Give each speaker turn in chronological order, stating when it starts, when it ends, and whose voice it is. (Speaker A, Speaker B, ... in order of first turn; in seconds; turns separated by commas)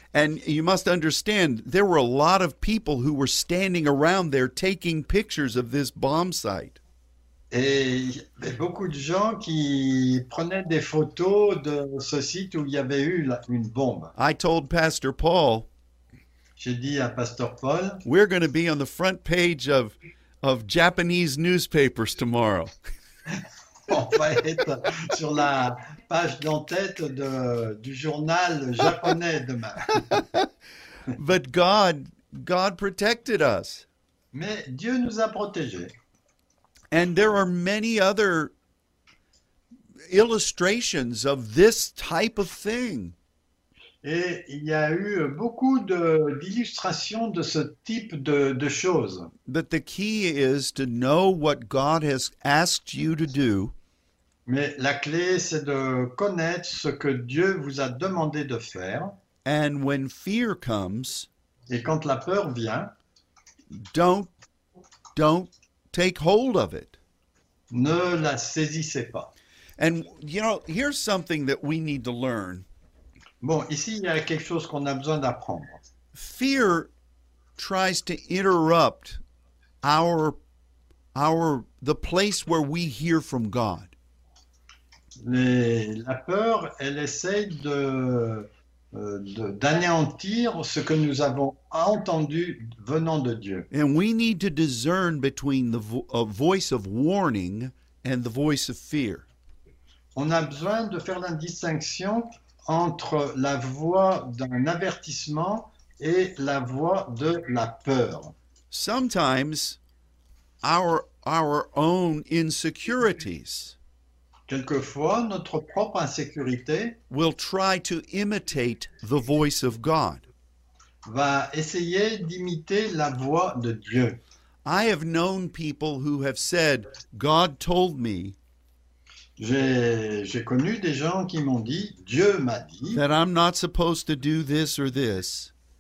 Speaker A: 0.1-6.8, Speaker B: 7.5-14.1, Speaker A: 14.2-15.7, Speaker B: 16.6-18.0, Speaker A: 18.1-22.7, Speaker B: 23.9-30.1, Speaker A: 30.0-30.5, Speaker A: 31.1-33.9, Speaker B: 34.3-35.9, Speaker A: 36.9-38.5, Speaker A: 40.1-43.1, Speaker B: 44.0-49.3, Speaker A: 49.5-53.7, Speaker B: 54.5-59.1, Speaker A: 59.5-61.3, Speaker B: 61.7-62.9, Speaker A: 63.7-64.3, Speaker A: 65.2-67.0, Speaker B: 67.7-69.3, Speaker A: 69.8-72.7, Speaker B: 73.4-75.8, Speaker A: 76.1-76.9, Speaker A: 77.6-79.2, Speaker A: 79.8-80.4, Speaker A: 81.2-83.9, Speaker B: 85.2-93.7, Speaker A: 93.7-99.3, Speaker B: 100.2-108.3, Speaker A: 108.7-109.8, Speaker A: 110.6-113.8, Speaker B: 114.5-117.0, Speaker A: 117.1-120.3, Speaker B: 121.0-124.2, Speaker A: 124.7-128.4, Speaker B: 129.4-133.0, Speaker A: 132.9-135.5